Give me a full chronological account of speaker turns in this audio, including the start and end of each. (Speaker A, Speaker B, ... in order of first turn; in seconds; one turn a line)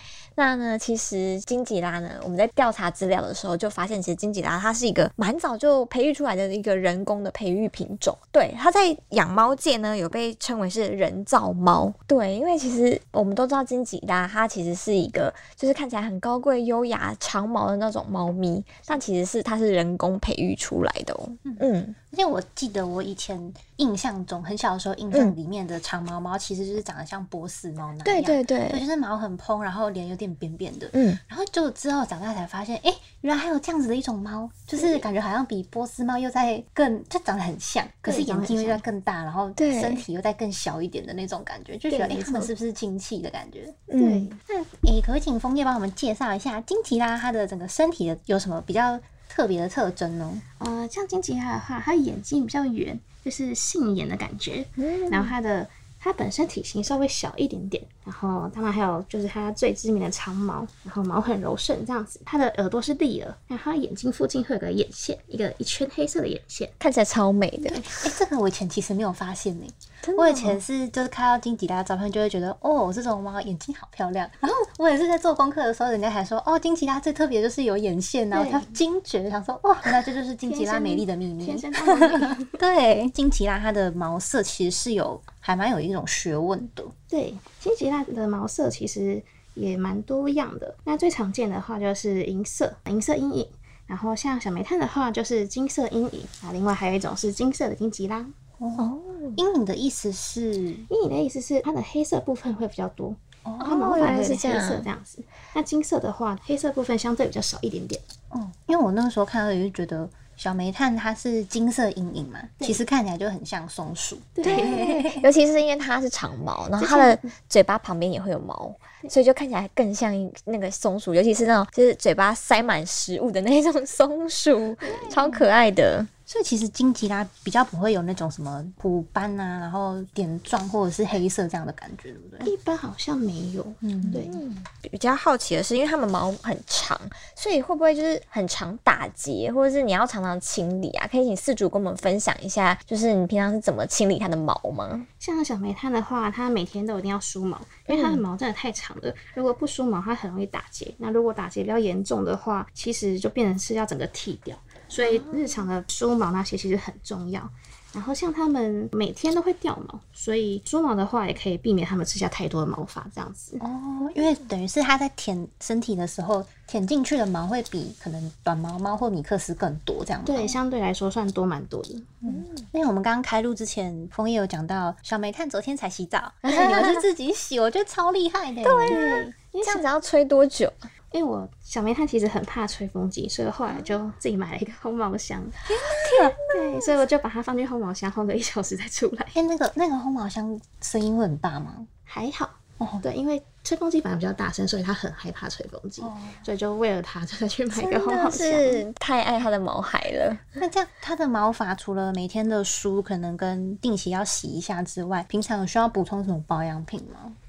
Speaker A: 0.3-21.9
Speaker B: 21.4-43.8
Speaker A: 28.0-28.8
Speaker A: 30.9-31.2
Speaker C: 34.8-35.0
Speaker C: 38.0-38.8
Speaker A: 39.6-40.0
Speaker C: 41.9-42.5
Speaker A: 43.9-44.3
Speaker C: 44.0-44.4
Speaker B: 44.5-50.4
Speaker C: 50.6-66.7
Speaker A: 54.8-55.3
Speaker A: 66.8-67.8
Speaker B: 67.8-86.9
Speaker A: 70.0-70.6
Speaker C: 78.3-78.7
Speaker C: 80.4-82.6
Speaker C: 87.1-98.3
Speaker A: 98.8-99.4
Speaker B: 99.3-100.8
Speaker C: 100.9-108.0
Speaker B: 103.4-103.7
Speaker A: 103.6-104.9
Speaker B: 108.3-115.3
Speaker C: 114.3-115.0
Speaker A: 114.4-126.1
Speaker C: 116.8-117.3
Speaker C: 124.8-125.2
Speaker B: 124.9-125.4
Speaker B: 126.3-132.5
Speaker C: 132.4-134.4
Speaker B: 133.8-134.3
Speaker A: 134.1-145.1
Speaker C: 145.2-163.6
Speaker A: 147.9-148.2
Speaker A: 155.0-155.6
Speaker B: 163.6-170.6
Speaker C: 170.2-172.2
Speaker B: 172.2-179.0
Speaker A: 172.3-172.7
Speaker A: 176.4-177.0
Speaker C: 176.5-176.8
Speaker A: 178.6-180.9
Speaker C: 178.9-179.8
Speaker C: 181.1-185.7
Speaker A: 185.7-186.6
Speaker B: 185.8-186.3
Speaker C: 186.5-189.3
Speaker B: 189.3-191.9
Speaker C: 192.1-198.8
Speaker B: 192.8-193.0
Speaker B: 196.0-196.4
Speaker A: 197.7-200.4
Speaker B: 200.6-207.3